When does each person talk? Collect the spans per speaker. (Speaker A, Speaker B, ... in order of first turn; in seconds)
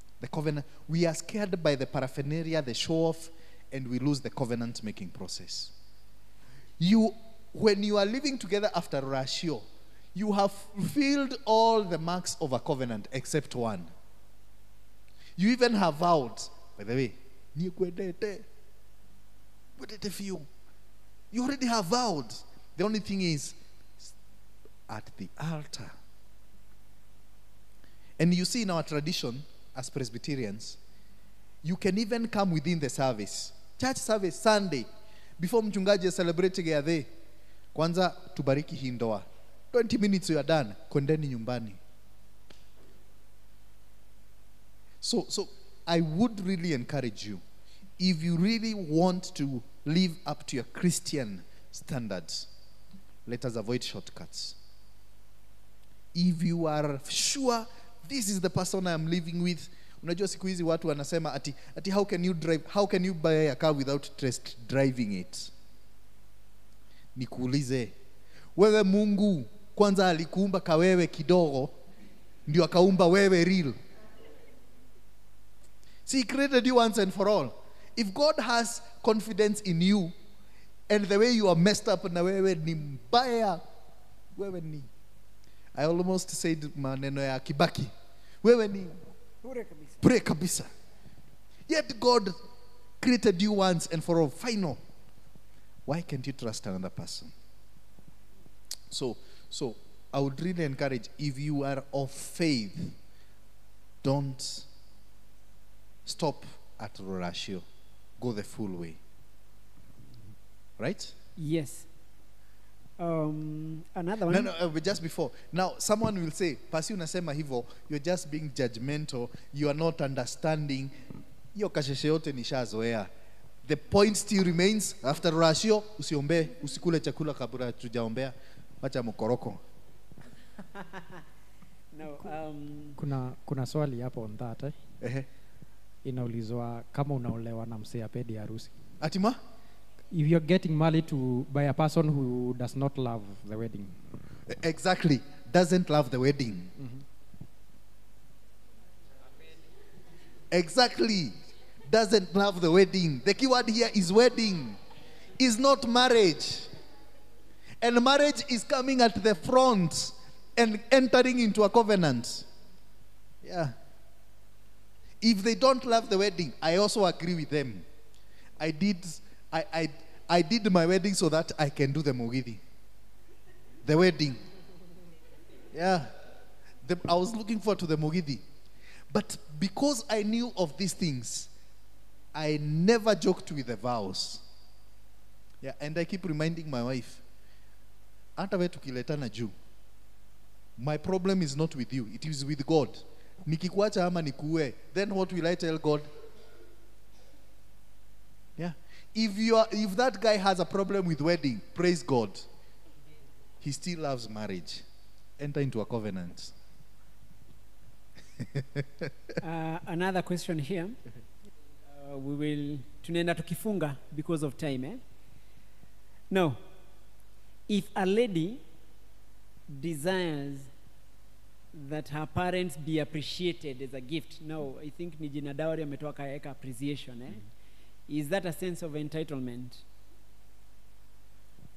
Speaker A: 0.2-5.7, 6.8-13.9, 15.4-18.5, 19.8-20.5, 21.3-24.1, 24.9-26.0, 28.2-30.8, 31.6-37.1, 37.7-41.8, 45.0-47.4, 48.0-52.5, 53.3-54.6, 56.1-65.5, 67.2-68.0, 68.6-71.8, 72.5-73.8, 76.1-80.2, 80.9-83.7, 84.3-84.9, 85.7-89.0, 90.0-90.7, 91.7-92.4, 93.0-94.8, 95.9-97.3, 98.9-103.0, 104.0-104.7, 106.0-107.7, 108.2-109.0, 110.8-111.2, 114.3-121.0, 121.5-123.1, 123.6-129.6, 135.0-135.3, 139.0-139.4, 144.5-146.7, 150.5-154.8, 155.4-156.8, 157.8-162.5, 163.4-163.8, 165.2-167.9, 168.6-172.6, 173.8-174.4, 175.7-176.2, 176.8-178.4, 179.1-181.5, 182.3-184.4, 185.6-187.2, 188.4-189.5, 190.8-196.1, 198.6-202.5, 203.6-204.8, 205.4-206.5, 208.4-209.1
Speaker B: 89.4-90.1, 111.4-111.9, 113.0-114.5, 131.9-133.0, 209.4-211.0, 211.9-215.0, 216.3-216.6, 217.7-218.6, 219.7-220.7, 221.7-227.5, 228.1-229.8
Speaker C: 133.0-134.8, 136.1-138.7, 140.1-144.0, 146.8-147.0